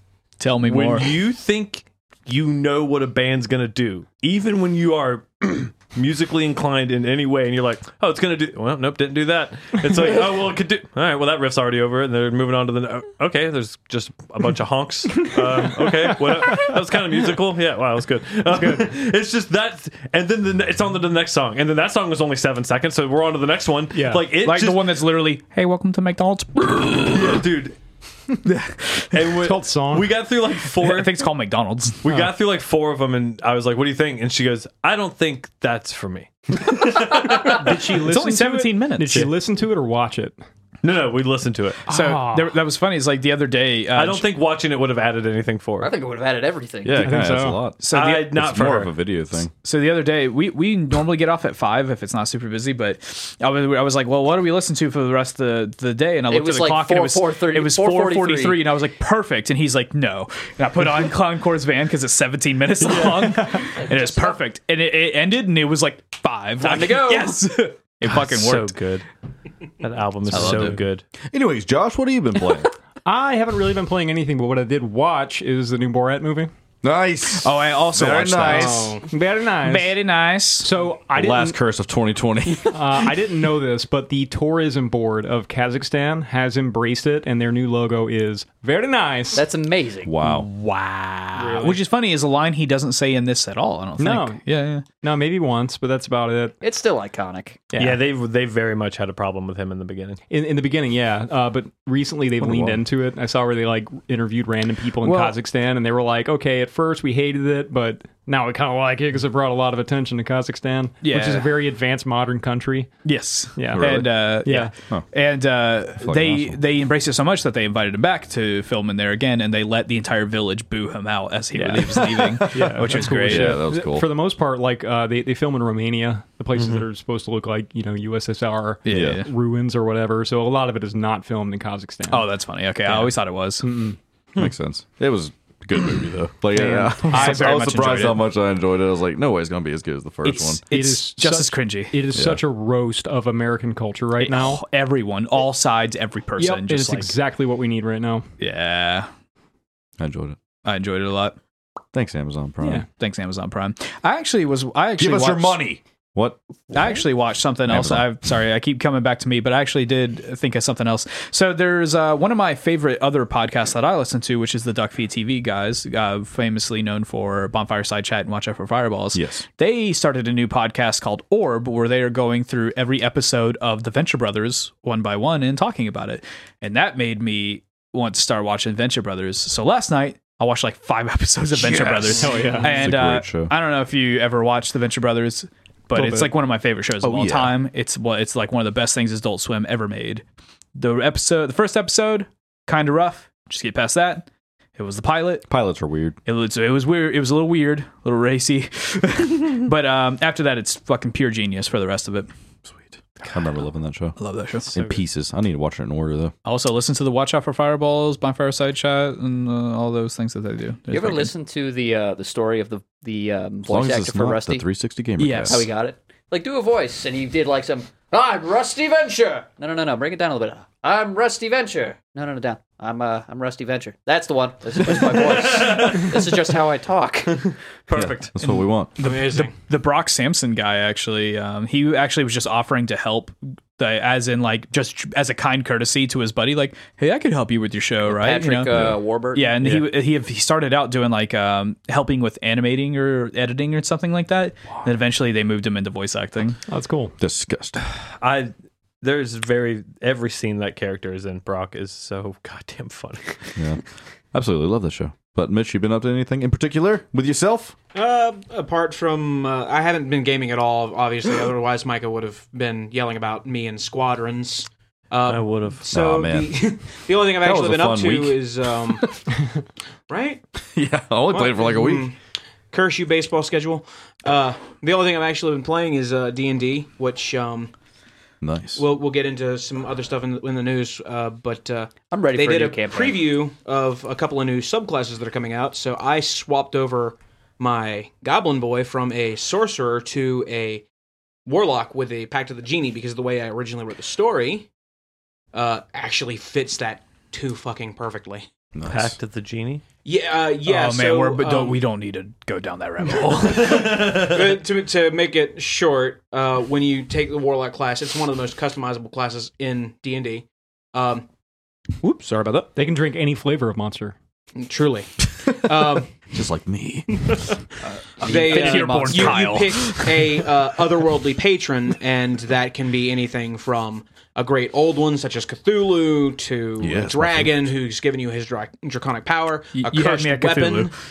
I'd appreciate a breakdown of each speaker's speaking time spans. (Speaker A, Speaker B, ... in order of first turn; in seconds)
Speaker A: 0.4-1.1, 24.4-27.4, 28.4-29.1, 30.8-32.1, 37.6-39.3, 41.9-44.2, 47.8-48.3, 49.6-68.7, 77.4-79.0, 79.6-80.7, 90.2-94.8, 105.0-105.4, 111.0-111.5, 113.0-123.6, 128.8-129.3, 132.1-133.7, 136.5-138.2, 140.2-142.1, 144.2-147.2, 148.4-149.1, 150.6-151.3, 152.9-155.6, 156.7-190.2, 190.8-195.4, 196.2-202.3, 204.2-204.7, 206.4-211.3, 215.2-215.7, 229.0-246.6, 300.6-303.9, 318.3-320.0, 329.7-330.9
Speaker B: 0.7-25.0, 27.0-27.8, 29.1-31.1, 32.0-37.9, 40.8-41.8, 43.9-45.9, 47.9-48.9, 62.8-63.5, 68.0-69.0, 69.8-71.0, 97.8-100.2, 126.5-126.8, 204.7-205.0, 224.9-226.4, 227.3-228.3, 247.8-253.6, 265.2-265.8, 298.9-299.8, 303.5-304.5
Speaker C: 15.2-17.1, 18.6-18.8, 23.9-24.3, 29.4-30.2, 37.4-40.4, 41.9-42.6, 47.0-47.6, 63.1-63.3, 73.0-76.5, 78.5-80.0, 80.6-81.6, 82.7-89.4, 91.4-91.7, 94.0-94.4, 94.9-96.6, 100.3-112.9, 113.5-114.7, 121.5-132.3, 132.9-134.0, 136.8-137.5, 140.7-144.6, 146.4-148.2, 152.6-152.8, 181.9-182.9, 185.9-186.3, 246.7-247.1, 312.7-314.1
Speaker D: 45.8-47.2, 56.3-58.7, 63.8-64.3, 66.6-67.3, 89.3-90.1, 96.6-97.6, 210.9-214.6, 215.5-227.5, 238.1-239.5, 282.1-283.3, 318.2-319.5
Speaker E: 46.8-47.8, 48.3-49.5, 70.3-72.7, 76.8-78.9, 81.1-83.1, 90.0-90.5, 102.4-102.8, 113.7-114.3, 116.0-116.6, 122.1-124.1, 128.9-129.2, 134.3-140.6, 142.1-142.4, 150.0-150.4, 151.9-152.8, 155.0-156.4, 157.7-158.1, 169.1-169.4, 181.7-183.5, 187.0-187.6, 195.5-196.2, 202.7-206.3, 213.7-215.7, 227.9-228.9, 238.7-239.0, 247.2-247.8, 253.6-253.8, 254.3-257.7, 265.9-266.5, 267.4-268.4, 270.7-272.1, 278.4-278.8, 298.7-299.1, 315.4-317.2, 326.8-327.6
Speaker F: 91.4-91.7, 229.0-229.6, 257.9-269.2, 270.1-270.4, 271.3-272.1, 272.7-277.7, 278.8-290.8, 291.4-294.7, 295.5-298.5, 300.0-301.8, 303.7-311.2, 312.0-312.7, 314.6-316.1, 318.2-330.9